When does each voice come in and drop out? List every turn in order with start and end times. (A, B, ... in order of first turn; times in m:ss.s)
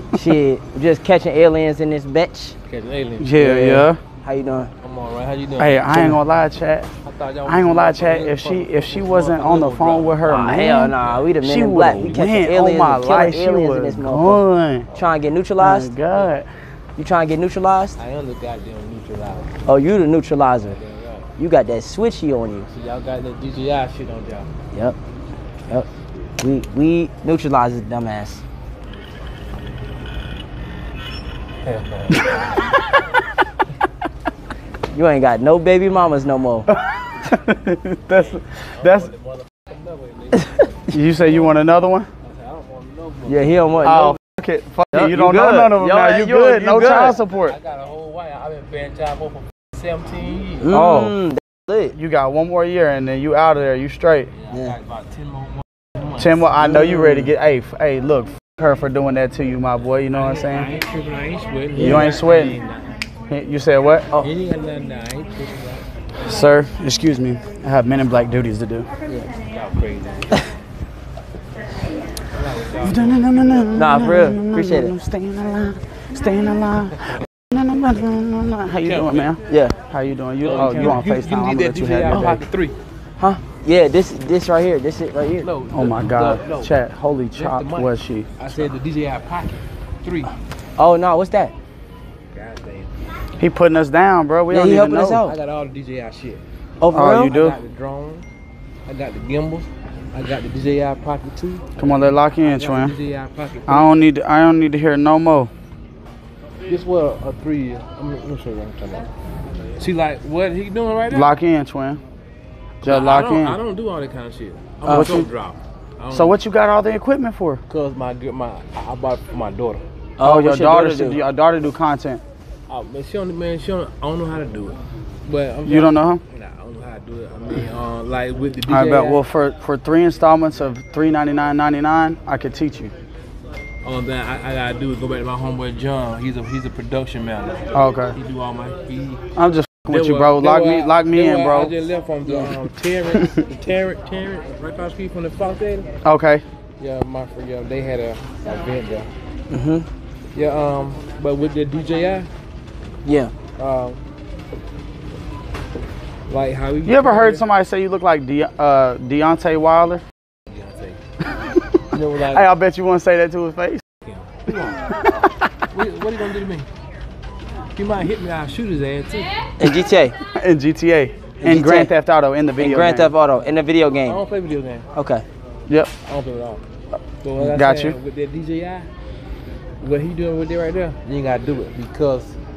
0:00.1-0:02.6 A
0:02.7-0:03.3 B
0:03.2-0:04.0 C
0:03.4-0:04.7 A
0:04.8-0:06.2 B
0:05.6-0:06.9 C
0:07.0-0:10.4 B
0:07.4-0:14.9 C
0:10.3-0:14.4 A
0:14.9-0:15.9 A
0:15.6-0:16.5 C
0:17.0-0:18.0 A
0:18.0-0:19.6 B
0:19.6-0:20.8 A
0:20.6-0:21.3 B
0:21.4-0:22.7 A
0:22.7-0:24.5 B
0:26.4-0:28.4 A
0:31.6-0:32.5 B
0:34.9-0:36.7 A
0:36.7-0:39.1 C
0:38.1-0:41.6 B
0:40.9-0:42.1 C
0:42.2-0:44.0 B
0:43.3-0:44.2 A
0:43.8-0:47.6 C
0:44.9-0:47.2 A
0:47.4-0:50.7 B
0:50.6-0:52.0 A
0:50.7-0:51.2 C
0:51.9-0:54.3 C
0:54.4-0:56.4 B
0:54.5-0:54.8 A
0:56.2-1:00.7 C
0:56.6-0:57.3 A
1:00.1-1:03.0 B
1:01.8-1:02.6 C
1:01.8-1:02.1 A
1:03.3-1:04.2 C
1:04.2-1:05.8 B
1:06.2-1:08.9 C
1:09.5-1:10.5 B
1:12.3-1:13.3 B
1:12.8-1:22.4 C
1:13.7-1:14.9 A
1:18.8-1:19.4 B
1:19.5-1:19.8 A
1:20.4-1:22.8 B
1:22.1-1:22.4 A
1:23.2-1:25.5 A
1:25.4-1:26.7 B
1:25.7-1:28.7 C
1:27.3-1:30.3 B
1:30.8-1:31.5 A
1:32.3-1:32.9 B
1:33.4-1:35.2 C
1:34.5-1:35.4 A
1:35.2-1:36.4 B
1:36.8-1:37.3 A
1:36.9-1:37.6 C
1:37.1-1:38.2 B
1:38.9-1:44.0 B
1:41.8-1:43.0 C
1:43.7-1:45.5 C
1:46.7-1:49.1 B
1:49.8-1:51.3 B
1:51.1-1:52.0 C
1:52.8-1:56.4 B
1:52.8-1:53.6 C
1:54.8-1:55.2 A
1:54.9-1:55.3 C
1:56.1-1:57.6 C
1:57.7-1:59.9 B
2:00.2-2:01.2 A
2:00.2-2:02.2 C
2:02.7-2:09.2 B
2:05.6-2:06.2 C
2:08.7-2:12.9 C
2:13.8-2:19.2 B
2:17.7-2:18.2 C
2:19.4-2:21.7 C
2:19.9-2:25.9 B
2:22.3-2:22.5 A
2:26.0-2:26.4 C
2:26.8-2:29.1 B
2:29.5-2:29.9 A
2:30.3-2:32.3 B
2:33.0-2:33.3 A
2:33.6-2:34.0 B
2:36.3-2:37.4 B
2:36.8-2:40.0 C
2:40.5-2:41.0 B
2:41.9-2:42.5 B
2:42.3-2:43.8 C
2:44.0-2:45.0 B
2:45.7-2:46.7 B
2:47.8-2:49.3 B
2:49.6-2:50.2 A
2:50.3-2:53.1 C
2:51.4-2:51.9 A
2:52.6-2:54.2 A
2:54.1-2:54.9 B
2:54.9-2:55.2 A
2:56.0-2:56.6 B
2:57.2-2:58.9 B
2:57.4-2:58.0 C
2:59.8-3:02.4 B